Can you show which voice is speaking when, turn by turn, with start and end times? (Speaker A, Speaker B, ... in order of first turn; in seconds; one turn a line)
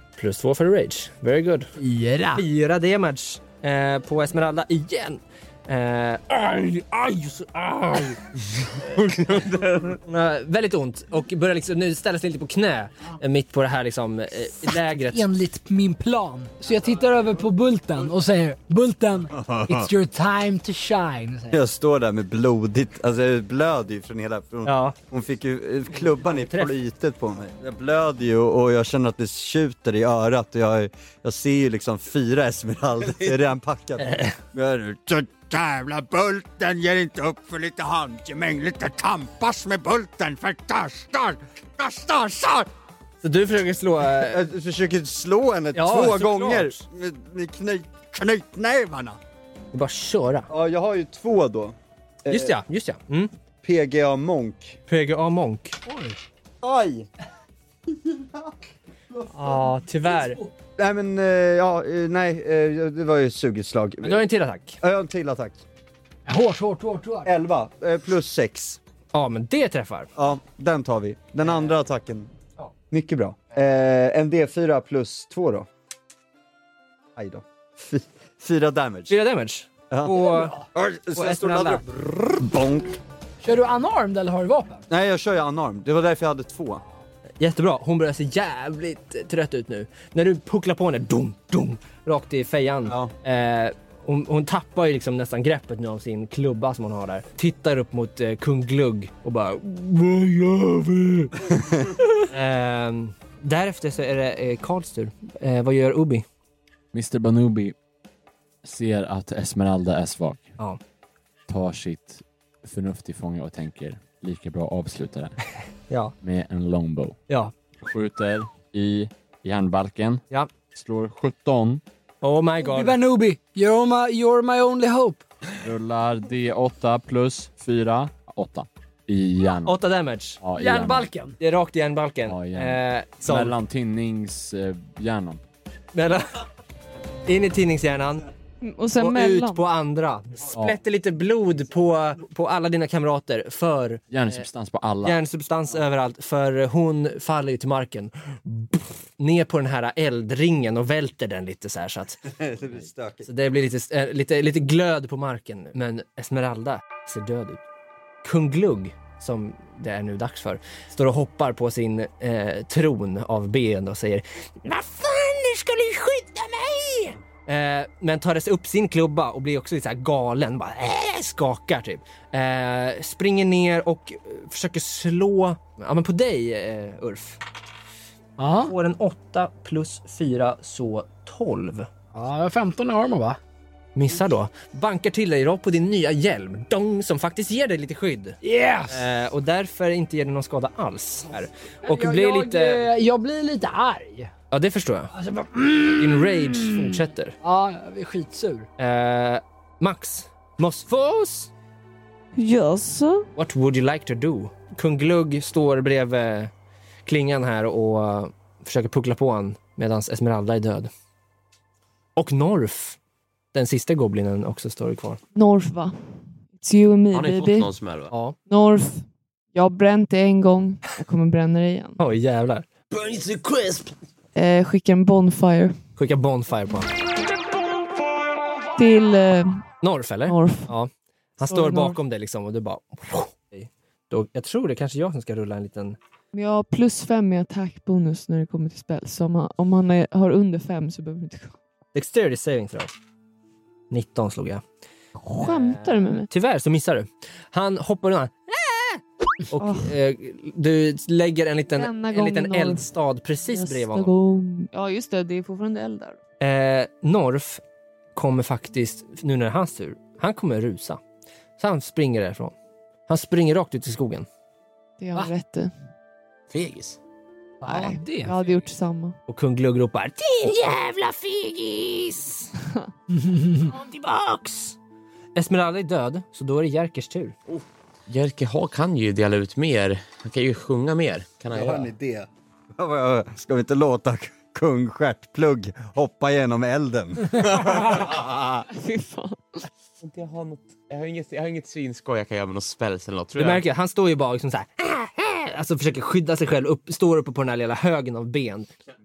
Speaker A: 0.2-1.7
Speaker B: 1.8-2.4
Speaker A: 2.3-15.3
Speaker C: 9.3-9.6
Speaker B: 14.6-21.6
Speaker D: 19.3-19.9
Speaker D: 21.5-42.7
Speaker A: 24.6-24.9
Speaker A: 26.2-26.7
Speaker A: 43.2-44.4
Speaker D: 44.2-49.2
Speaker A: 45.7-46.8
Speaker A: 49.7-50.5
Speaker D: 50.5-52.5
Speaker A: 52.3-53.3
Speaker D: 53.6-54.8
Speaker A: 54.9-55.8
Speaker B: 55.9-56.2
Speaker D: 56.6-57.1
Speaker A: 59.3-60.4
Speaker D: 60.8-64.2
Speaker A: 64.0-64.8
Speaker D: 64.8-65.6
Speaker B: 66.2-67.3
Speaker D: 67.2-68.8
Speaker A: 69.1-70.1
Speaker D: 70.2-72.3
Speaker D: 72.9-75.7
Speaker D: 77.2-79.1
Speaker A: 79.1-80.6
Speaker D: 79.9-82.9
Speaker A: 81.1-81.8
Speaker B: 83.4-84.8
Speaker D: 84.9-86.8
Speaker A: 87.4-101.5
Speaker A: 102.2-106.2
Speaker E: 106.9-107.8
Speaker E: 108.6-110.5
Speaker E: 111.5-115.4
Speaker E: 116.2-117.2
Speaker E: 117.8-120.2
Speaker E: 120.7-121.8
Speaker A: 122.2-123.0
Speaker B: 122.6-125.2
Speaker E: 125.6-129.8
Speaker A: 129.6-130.4
Speaker E: 130.4-131.1
Speaker B: 130.6-131.3
Speaker A: 131.4-133.5
Speaker E: 132.3-135.4
Speaker A: 135.9-136.4
Speaker A: 137.2-138.2
Speaker F: 138.6-139.6
Speaker A: 139.0-144.4
Speaker E: 144.1-145.2
Speaker A: 145.0-152.2
Speaker D: 152.2-153.3
Speaker A: 153.2-157.6
Speaker A: 158.2-177.4
Speaker B: 178.4-178.7
Speaker A: 178.6-181.9
Speaker B: 182.1-183.4
Speaker A: 183.9-188.4
Speaker B: 188.4-189.1
Speaker A: 188.9-192.9
Speaker B: 191.8-194.3
Speaker A: 194.5-195.1
Speaker B: 195.1-198.7
Speaker A: 196.0-197.3
Speaker A: 198.8-201.5
Speaker F: 202.3-203.3
Speaker A: 203.3-206.5
Speaker A: 207.1-210.9
Speaker A: 212.2-213.0
Speaker A: 213.5-215.2
Speaker F: 215.3-216.0
Speaker F: 216.6-217.7
Speaker C: 217.1-218.1
Speaker A: 218.1-218.3
Speaker F: 218.5-222.0
Speaker A: 222.0-222.7
Speaker C: 222.9-223.9
Speaker F: 224.3-225.8
Speaker A: 226.0-226.9
Speaker F: 228.8-229.7
Speaker A: 229.8-236.0
Speaker F: 230.2-230.7
Speaker F: 231.4-232.0
Speaker F: 236.3-241.6
Speaker A: 241.9-242.9
Speaker A: 243.9-244.6
Speaker F: 245.2-246.3
Speaker A: 245.4-254.1
Speaker F: 249.5-249.9
Speaker F: 251.8-252.9
Speaker F: 253.5-256.2
Speaker A: 256.4-257.6
Speaker A: 258.1-261.0
Speaker A: 261.6-262.5
Speaker A: 263.1-264.3
Speaker F: 265.0-265.7
Speaker C: 266.5-267.0
Speaker B: 267.6-268.4
Speaker F: 267.7-269.1
Speaker A: 269.3-272.5
Speaker B: 273.1-273.7
Speaker A: 273.6-274.7
Speaker A: 275.4-277.4
Speaker C: 277.5-281.9
Speaker D: 281.5-288.6
Speaker F: 288.7-289.6
Speaker C: 290.0-293.6
Speaker A: 293.4-298.7